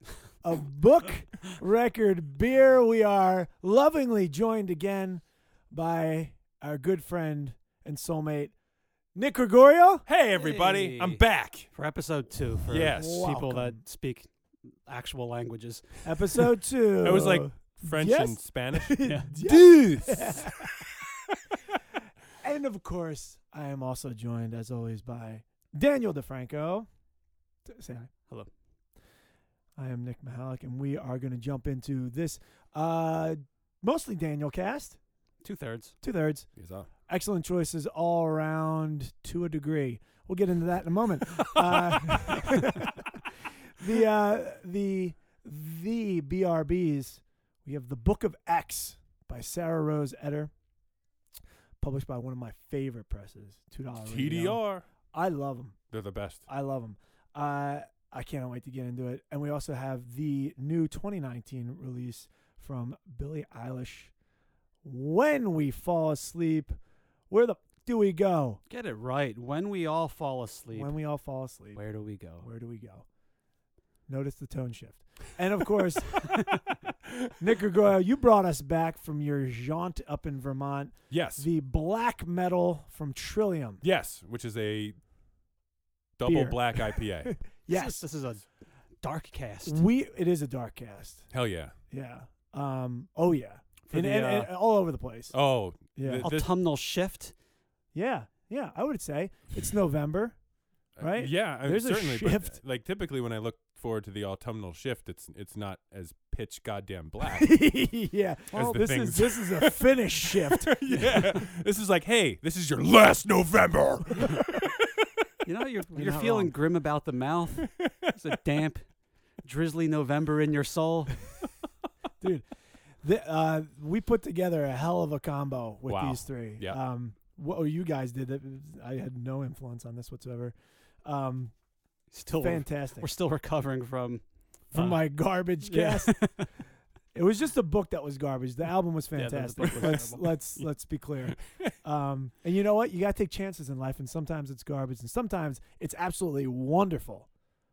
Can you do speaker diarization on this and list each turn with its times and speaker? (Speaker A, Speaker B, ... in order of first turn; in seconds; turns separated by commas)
Speaker A: 0.4-8.5, Speaker A: 9.1-10.0, Speaker B: 10.1-11.7, Speaker C: 10.3-14.3, Speaker B: 12.7-13.3, Speaker A: 12.8-13.8, Speaker C: 14.8-16.4, Speaker A: 16.0-20.7, Speaker B: 17.0-21.0, Speaker C: 19.0-19.3, Speaker A: 22.4-26.9, Speaker A: 27.7-28.1, Speaker A: 29.8-35.0, Speaker C: 35.4-35.9, Speaker A: 36.0-36.5, Speaker B: 36.5-36.9, Speaker A: 37.1-43.2, Speaker A: 43.7-50.5, Speaker A: 51.8-54.6, Speaker B: 54.0-54.8, Speaker A: 55.1-55.8, Speaker B: 55.9-56.4, Speaker A: 56.5-64.1, Speaker A: 64.8-66.8, Speaker A: 67.3-68.6, Speaker C: 68.7-70.9, Speaker A: 70.7-71.8, Speaker C: 71.7-72.5, Speaker A: 72.4-73.0, Speaker A: 74.1-76.4, Speaker A: 77.4-83.8, Speaker B: 81.1-81.5, Speaker B: 83.8-85.0, Speaker B: 86.2-87.4, Speaker A: 86.2-88.0, Speaker C: 87.7-89.8, Speaker A: 89.6-91.3, Speaker B: 91.3-91.7, Speaker A: 91.9-95.3, Speaker C: 93.9-94.5, Speaker B: 95.3-96.5, Speaker A: 95.9-96.3, Speaker C: 96.2-97.3, Speaker A: 97.9-100.4, Speaker B: 101.0-107.6, Speaker A: 101.0-102.6, Speaker A: 107.4-111.4, Speaker B: 108.5-110.0, Speaker B: 110.6-115.1, Speaker C: 115.4-118.9, Speaker A: 115.9-116.5, Speaker B: 117.6-118.3, Speaker C: 119.4-121.3, Speaker A: 122.2-122.5, Speaker A: 123.0-131.5, Speaker B: 125.8-126.8, Speaker C: 132.1-134.2, Speaker A: 132.4-133.1, Speaker A: 134.7-136.3, Speaker C: 135.7-136.5, Speaker A: 137.1-147.3, Speaker C: 139.1-140.7